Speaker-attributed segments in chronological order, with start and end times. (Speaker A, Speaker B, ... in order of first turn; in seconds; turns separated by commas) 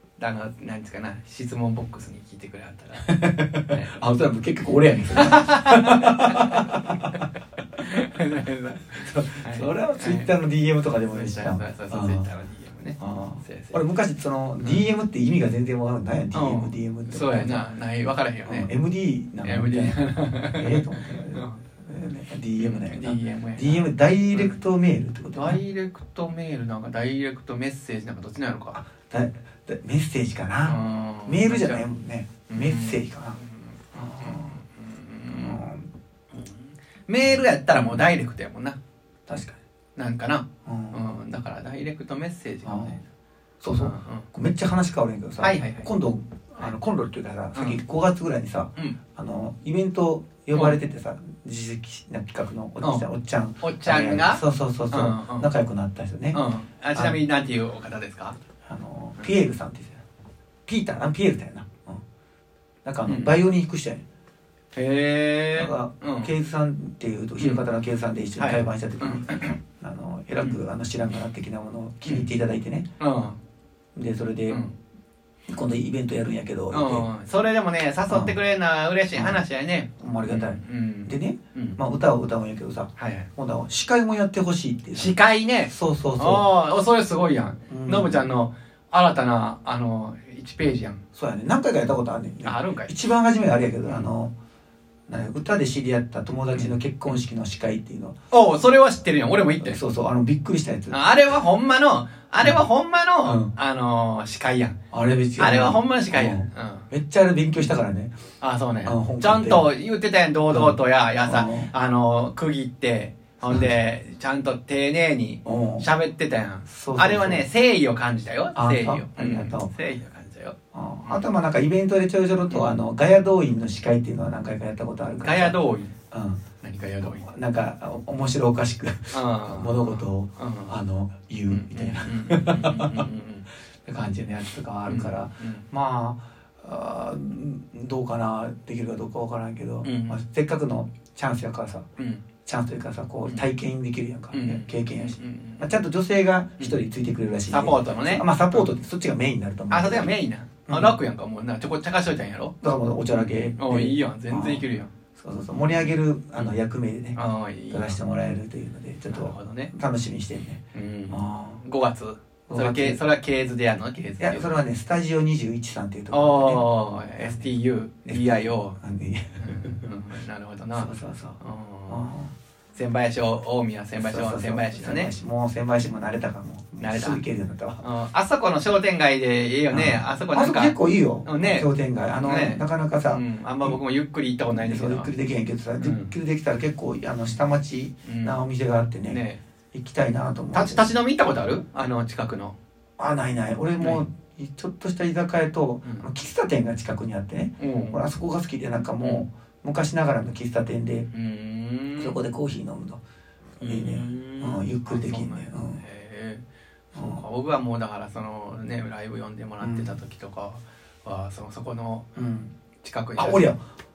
Speaker A: 0.2-3.9, Speaker B: 3.0-7.2, Speaker A: 5.2-10.3, Speaker B: 9.0-12.3, Speaker A: 11.1-13.8, Speaker B: 13.0-17.7, Speaker A: 14.6-14.9, Speaker A: 16.3-18.7, Speaker B: 18.4-25.6, Speaker A: 19.4-21.6, Speaker A: 22.6-24.6, Speaker A: 25.3-28.8, Speaker B: 28.7-33.4, Speaker A: 30.6-31.9, Speaker A: 32.5-35.6, Speaker B: 33.9-34.6, Speaker B: 35.3-35.9, Speaker A: 36.3-38.8, Speaker B: 37.2-38.1, Speaker B: 39.3-39.6, Speaker A: 40.0-43.0, Speaker B: 40.6-41.0, Speaker B: 42.6-43.0, Speaker B: 43.6-56.4, Speaker A: 43.8-44.3, Speaker A: 45.4-45.9, Speaker A: 47.5-47.8, Speaker A: 53.6-55.5, Speaker A: 56.3-58.4, Speaker B: 58.6-60.0, Speaker B: 60.6-62.0, Speaker B: 62.8-64.0, Speaker A: 63.0-63.3, Speaker A: 64.7-66.3, Speaker B: 65.5-72.9, Speaker A: 68.4-69.5, Speaker A: 73.0-73.4, Speaker B: 73.9-74.6, Speaker A: 74.5-74.7, Speaker B: 75.5-77.1, Speaker A: 76.7-81.8, Speaker B: 78.1-78.3, Speaker B: 79.1-79.4, Speaker B: 80.0-85.1, Speaker A: 83.0-83.3, Speaker A: 84.9-91.0, Speaker B: 85.7-86.5, Speaker B: 87.7-88.3, Speaker B: 91.1-94.3, Speaker A: 92.4-92.9, Speaker B: 95.1-98.1, Speaker A: 98.3-99.8, Speaker B: 99.6-101.0, Speaker A: 100.9-104.8, Speaker B: 103.2-103.5, Speaker B: 104.9-108.1, Speaker A: 105.4-106.9, Speaker A: 108.4-121.2, Speaker B: 108.8-109.7, Speaker B: 110.5-111.7, Speaker B: 113.4-113.7, Speaker B: 115.4-115.9, Speaker B: 116.7-117.4, Speaker B: 118.5-119.7, Speaker B: 120.7-126.4, Speaker A: 122.5-122.8, Speaker A: 125.2-125.9, Speaker A: 126.6-127.2, Speaker B: 127.0-133.1, Speaker A: 129.1-130.8, Speaker A: 131.5-133.5, Speaker B: 133.8-141.8, Speaker A: 134.9-135.6, Speaker A: 139.8-140.2, Speaker A: 142.0-142.2, Speaker B: 142.4-150.1, Speaker A: 144.3-145.8, Speaker A: 147.5-148.7, Speaker A: 149.7-152.5, Speaker B: 150.7-151.0, Speaker B: 152.6-157.2, Speaker A: 153.1-154.9, Speaker A: 157.1-158.0, Speaker B: 157.7-161.6, Speaker A: 159.1-159.7, Speaker A: 160.7-164.5, Speaker B: 162.5-163.0, Speaker B: 164.2-167.5, Speaker A: 166.1-168.8, Speaker B: 168.0-169.8, Speaker A: 169.4-172.1, Speaker B: 170.7-172.3, Speaker A: 172.7-175.1, Speaker B: 173.9-177.8, Speaker A: 176.8-177.2, Speaker A: 177.8-181.7, Speaker B: 179.7-183.8, Speaker A: 182.2-185.1, Speaker B: 184.5-189.2, Speaker A: 185.8-186.1, Speaker A: 188.0-188.4, Speaker A: 189.1-189.4, Speaker B: 189.7-190.9, Speaker A: 190.5-192.6, Speaker B: 193.0-201.1, Speaker A: 193.8-194.0, Speaker A: 197.6-198.0, Speaker A: 201.1-202.2, Speaker B: 202.0-203.0, Speaker A: 203.6-206.4, Speaker B: 203.6-205.8, Speaker B: 206.9-207.2, Speaker A: 206.9-212.1, Speaker B: 209.6-209.9, Speaker B: 212.2-212.5, Speaker A: 212.8-213.5, Speaker B: 213.2-213.6